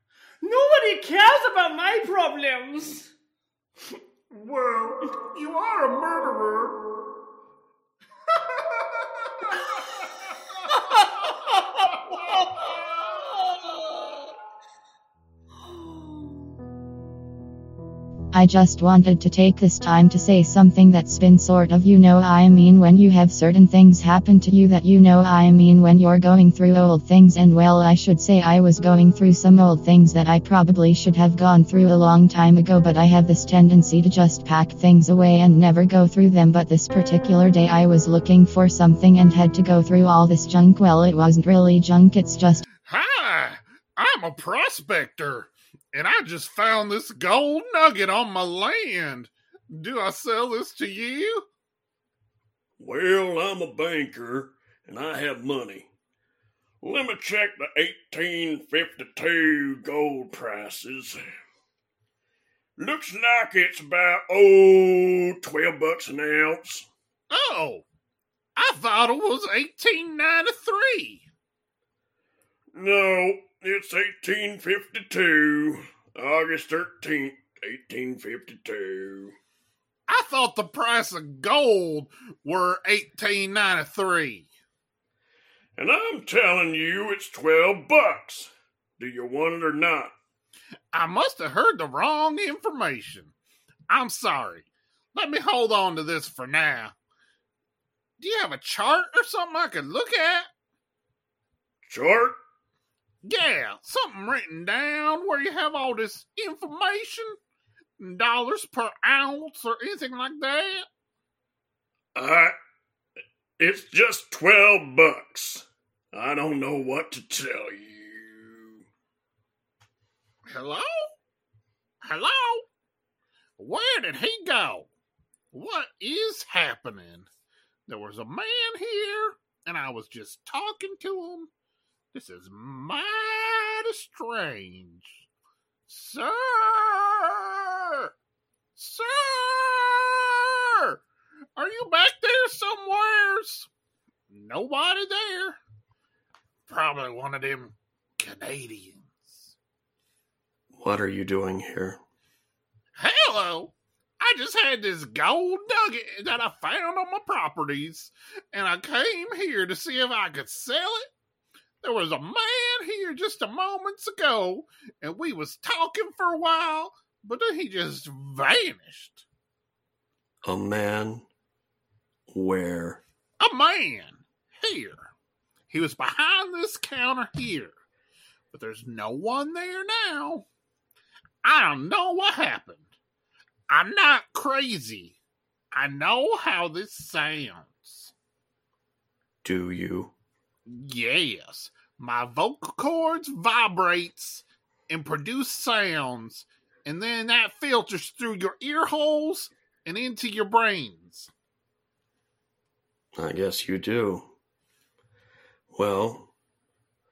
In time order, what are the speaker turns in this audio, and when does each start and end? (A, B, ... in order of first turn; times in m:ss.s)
0:00.4-0:03.1 A
0:04.3-0:06.8 B
0:08.3-0:09.6 B
0:10.7-0:14.2 A
0:15.5-0:16.6 A
0:18.3-0:42.6 C
0:42.8-0:51.5 D
0:52.8-0:55.9 E
0:56.8-1:01.2 E
1:02.8-1:06.9 E
1:07.3-1:07.8 D
1:08.6-1:11.2 D
1:12.7-1:19.3 E
1:20.1-1:24.5 D
1:25.8-1:30.1 E
1:30.9-1:33.3 D
1:33.9-1:36.9 D
1:38.2-1:40.5 D
1:41.8-1:42.4 E
1:43.2-1:47.4 D
1:48.0-1:50.8 D
1:52.1-1:52.5 E
1:53.6-1:58.8 E
2:00.4-2:00.8 D
2:02.0-2:02.6 D
2:03.6-2:04.9 D
2:05.5-2:07.3 D
2:07.9-2:11.5 D
2:12.1-2:15.2 D
2:15.9-2:18.1 D
2:18.8-2:21.0 D
2:21.6-2:23.7 D
2:24.3-2:25.6 D
2:26.7-2:29.5 D
2:30.7-2:32.0 F
2:33.0-2:41.1 D
2:41.8-2:49.2 D
2:50.4-2:51.2 F
2:52.3-2:53.0 F
2:53.4-2:55.1 D
2:55.7-2:57.8 D
2:58.5-3:00.4 D
3:01.4-3:02.9 D
3:03.7-3:05.2 D
3:05.7-3:08.1 D
3:09.4-3:10.1 F
3:10.6-3:21.3 D
3:23.2-3:24.3 F
3:25.7-3:26.3 F